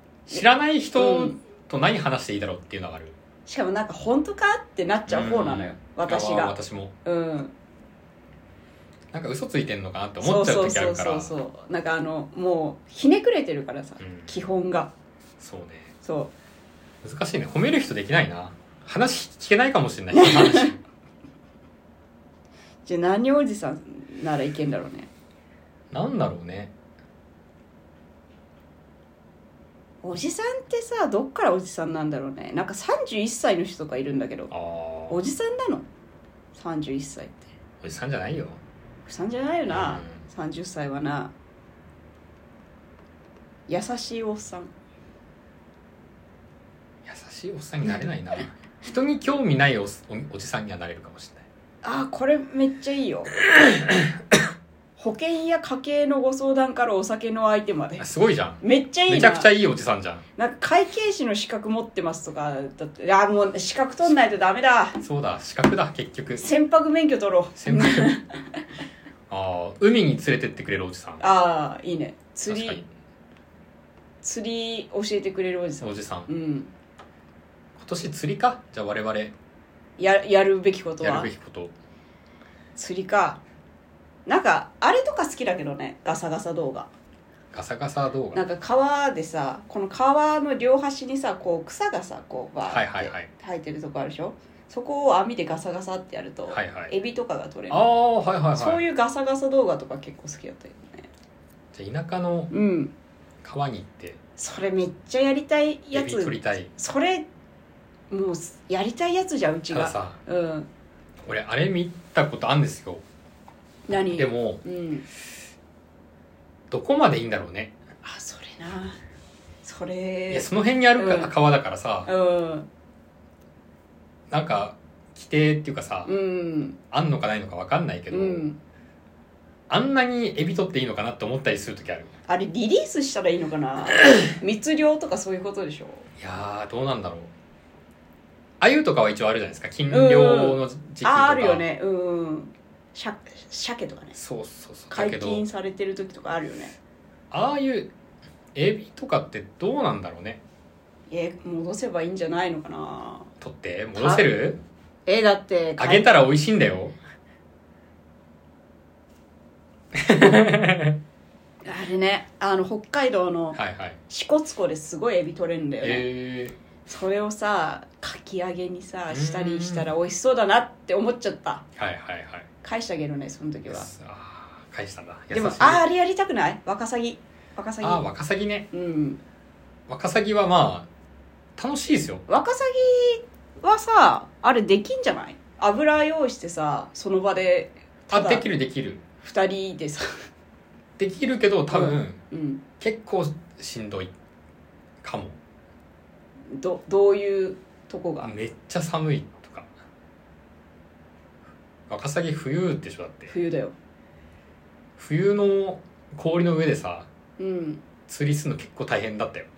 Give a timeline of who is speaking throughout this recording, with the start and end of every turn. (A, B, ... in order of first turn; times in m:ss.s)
0:00.3-0:03.2 A
0:01.0-0:01.4 B
0:03.4-0:07.5 B
0:05.1-0:06.9 A
0:09.1-0:11.3 A
0:10.2-0:14.9 B
0:14.0-0:14.4 A
0:15.4-0:15.9 A
0:16.0-0:16.3 B
0:17.0-0:20.8 A
0:20.1-0:20.7 B
0:22.8-0:25.1 B
0:25.9-0:26.7 A
0:30.0-0:34.5 B
0:34.5-0:35.2 A
0:35.1-0:35.8 B
0:36.5-0:37.5 B
0:37.8-0:38.6 A
0:39.0-0:41.3 B
0:39.7-0:40.2 A
0:43.7-0:44.7 B
0:47.0-0:51.4 A
0:51.8-0:53.3 B
0:55.0-0:58.0 B
0:58.0-1:00.2 A
0:58.6-0:59.5 B
1:00.4-1:05.0 B
1:05.0-1:06.5 A
1:06.4-1:08.4 B
1:07.6-1:08.1 A
1:09.3-1:11.2 A
1:11.2-1:12.8 B
1:12.5-1:12.9 A
1:14.2-1:16.7 B
1:15.8-1:16.3 A
1:17.8-1:19.3 A
1:20.0-1:21.3 B
1:21.0-1:21.7 A
1:22.8-1:23.4 B
1:24.2-1:26.9 B
1:27.5-1:28.4 A
1:28.3-1:37.9 B
1:32.7-1:33.3 A
1:36.5-1:36.9 A
1:37.7-1:38.8 A
1:38.5-1:41.1 B
1:41.7-1:42.5 A
1:42.5-1:42.9 B
1:43.4-1:44.2 A
1:44.4-1:47.2 B
1:45.9-1:46.7 A
1:48.1-1:50.7 B
1:49.7-1:50.2 A
1:51.2-1:53.0 A
1:53.9-1:55.0 B
1:54.1-1:54.6 A
1:56.7-1:57.7 A
1:58.0-1:59.0 B
1:59.6-2:01.3 B
2:00.3-2:02.1 A
2:02.0-2:02.7 B
2:04.3-2:06.1 A
2:06.0-2:06.8 B
2:06.9-2:08.5 A
2:08.1-2:08.6 B
2:09.7-2:12.1 A
2:12.3-2:16.1 B
2:16.2-2:17.3 A
2:18.6-2:21.6 A
2:19.9-2:24.2 B
2:24.1-2:25.4 A
2:24.9-2:26.7 B
2:27.3-2:27.9 A
2:28.5-2:30.4 A
2:31.1-2:33.3 B
2:33.4-2:34.6 A
2:34.0-2:34.2 B
2:35.0-2:36.1 B
2:35.8-2:37.0 A
2:39.9-2:41.0 A
2:41.6-2:43.6 B
2:43.5-2:44.0 A
2:44.1-2:46.0 B
2:45.8-2:46.6 A
2:46.8-2:51.6 B
2:49.1-2:49.9 A
2:51.8-2:52.5 A
2:52.6-2:53.9 B
2:53.7-2:55.8 A
2:55.3-2:58.0 B
2:57.8-2:58.7 A
2:58.7-2:59.2 B
2:59.9-3:00.9 A
3:01.6-3:02.2 A
3:02.3-3:08.4 B
3:08.1-3:09.0 A
3:09.2-3:10.2 B
3:11.0-3:12.2 A
3:11.7-3:12.6 B
3:12.8-3:14.1 A
3:15.0-3:15.4 A
3:16.5-3:18.3 B
3:18.2-3:19.7 A
3:21.9-3:23.3 A
3:23.3-3:23.7 B
3:25.0-3:27.1 A
3:27.4-3:27.8 B
3:28.1-3:29.5 A